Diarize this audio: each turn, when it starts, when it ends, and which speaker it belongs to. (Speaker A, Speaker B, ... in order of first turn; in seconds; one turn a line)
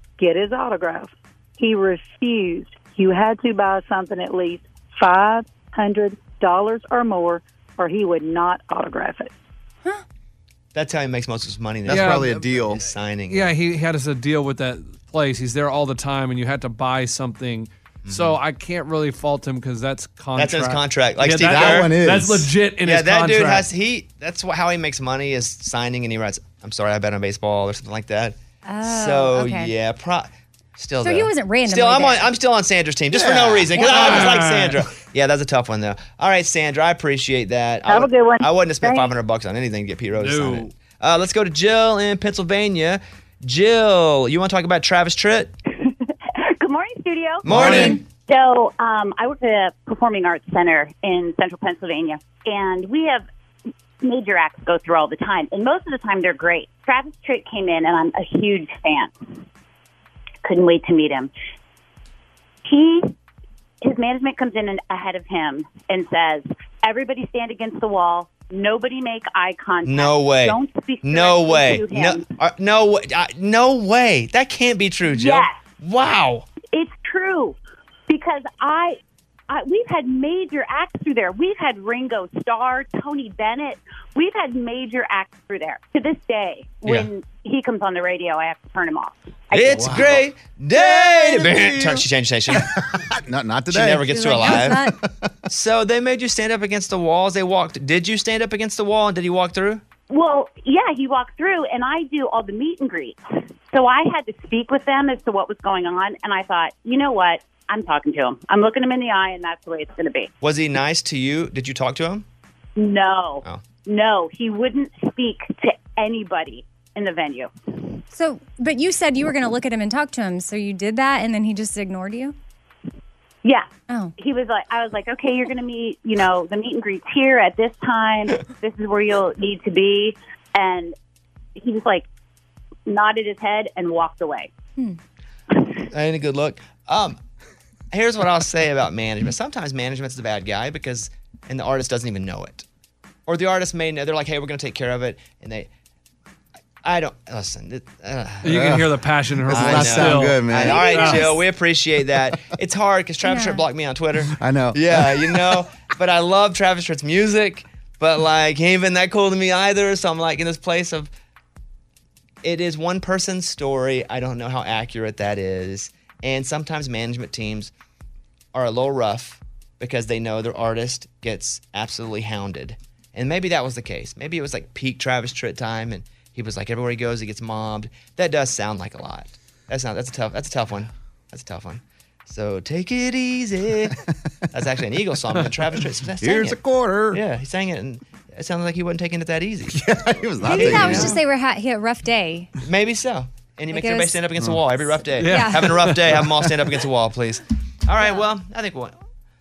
Speaker A: 0.2-9.3
Speaker B: 10.7-13.5
Speaker C: 11.9-12.8
Speaker D: 11.9-12.3
Speaker D: 13.3-23.7
Speaker B: 18.1-18.4
Speaker B: 20.4-21.9
Speaker C: 21.4-22.5
Speaker B: 22.8-45.5
Speaker E: 28.6-29.7
Speaker E: 31.0-32.3
Speaker C: 33.1-34.2
Speaker D: 33.8-34.8
Speaker A: 37.9-39.1
Speaker D: 40.2-40.7
Speaker F: 45.7-53.3
Speaker B: 47.5-48.0
Speaker C: 47.5-48.0
Speaker D: 47.5-48.0
Speaker F: 54.0-59.1
Speaker F: 60.5-61.3
Speaker F: 62.7-63.1
Speaker F: 63.8-72.3
Speaker B: 69.8-76.5
Speaker F: 75.1-75.6
Speaker F: 76.7-77.6
Speaker F: 78.1-79.0
Speaker F: 79.5-90.2
Speaker B: 89.5-92.7
Speaker C: 89.8-90.2
Speaker C: 90.8-95.3
Speaker B: 93.7-94.9
Speaker E: 94.1-95.0
Speaker B: 95.5-99.8
Speaker F: 100.1-110.3
Speaker B: 110.4-112.2
Speaker F: 112.8-117.5
Speaker E: 118.1-122.4
Speaker F: 124.2-130.9
Speaker F: 131.6-132.1
Speaker F: 132.9-134.5
Speaker F: 135.5-135.8
Speaker B: 135.9-137.2
Speaker B: 137.9-142.7
Speaker B: 143.3-145.7
Speaker B: 146.8-148.8
Speaker D: 148.4-151.3
Speaker C: 148.4-148.9
Speaker C: 149.4-151.0
Speaker B: 149.5-161.1
Speaker E: 150.6-151.4
Speaker E: 153.2-153.6
Speaker C: 154.3-155.6
Speaker B: 162.4-167.7
Speaker B: 168.5-184.0
Speaker B: 184.5-191.2
Speaker C: 186.2-187.2
Speaker C: 189.7-191.2
Speaker E: 190.4-192.5
Speaker B: 192.6-198.9
Speaker E: 193.7-194.2
Speaker D: 195.2-196.3
Speaker E: 195.2-195.8